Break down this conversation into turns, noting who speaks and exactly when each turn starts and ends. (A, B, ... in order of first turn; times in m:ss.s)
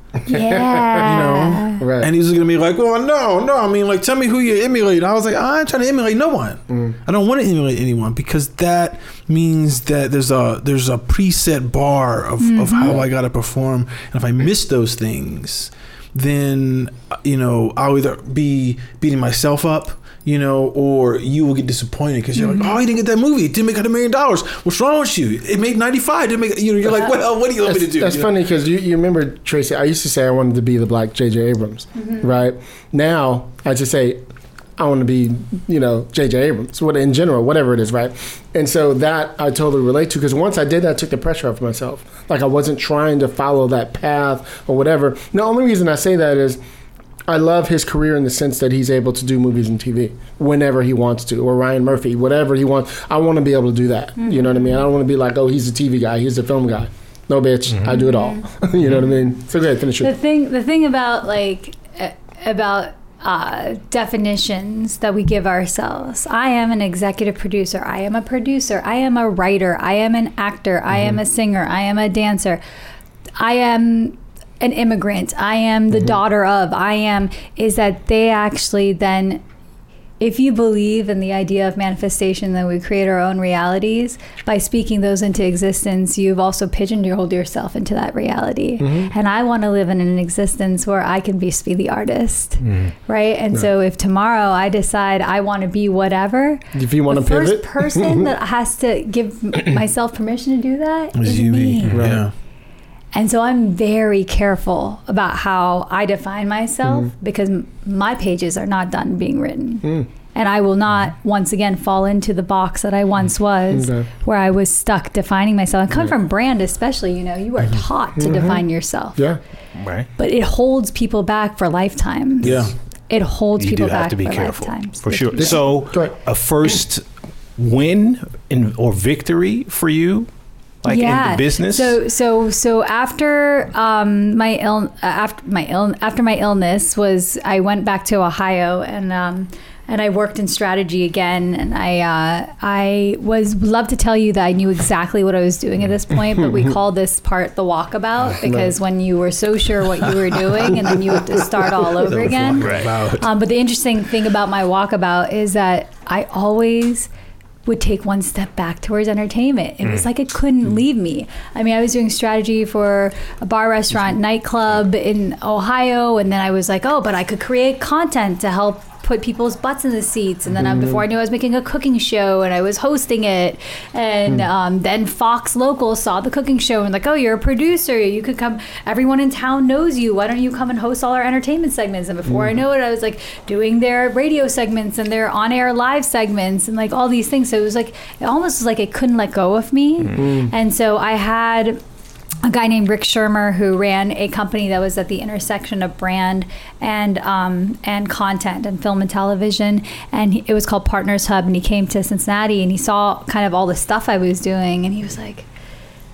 0:00.3-0:01.8 A
0:00.3-0:01.1 B
0:01.0-0:28.3 C
0:01.8-0:02.1 B
0:06.7-0:07.0 B
0:12.4-0:13.0 A
0:22.4-0:22.7 A
0:27.6-0:34.2 B
0:34.8-0:46.6 B
0:47.3-1:00.1 B
0:54.2-0:54.8 A
0:57.9-0:58.4 A
1:00.0-1:12.6 A
1:13.4-1:19.4 A
1:20.2-1:42.0 A
1:28.8-1:29.1 B
1:32.6-1:32.9 D
1:36.7-1:38.2 B
1:41.2-1:42.3 C
1:41.9-1:42.2 B
1:43.1-1:59.2 A
1:53.7-1:54.1 B
1:58.2-1:58.6 B
1:59.8-2:00.1 D
2:00.2-2:02.6 A
2:02.4-2:02.7 C
2:03.1-2:05.6 A
2:03.6-2:07.0 D
2:05.4-2:06.1 B
2:07.6-2:10.3 D
2:10.8-2:12.0 D
2:10.9-2:37.1 A
2:28.4-2:28.7 B
2:31.8-2:33.3 C
2:32.6-2:32.9 D
2:37.6-3:11.8 A
2:50.5-2:51.0 B
3:10.1-3:10.5 B
3:12.4-3:25.4 A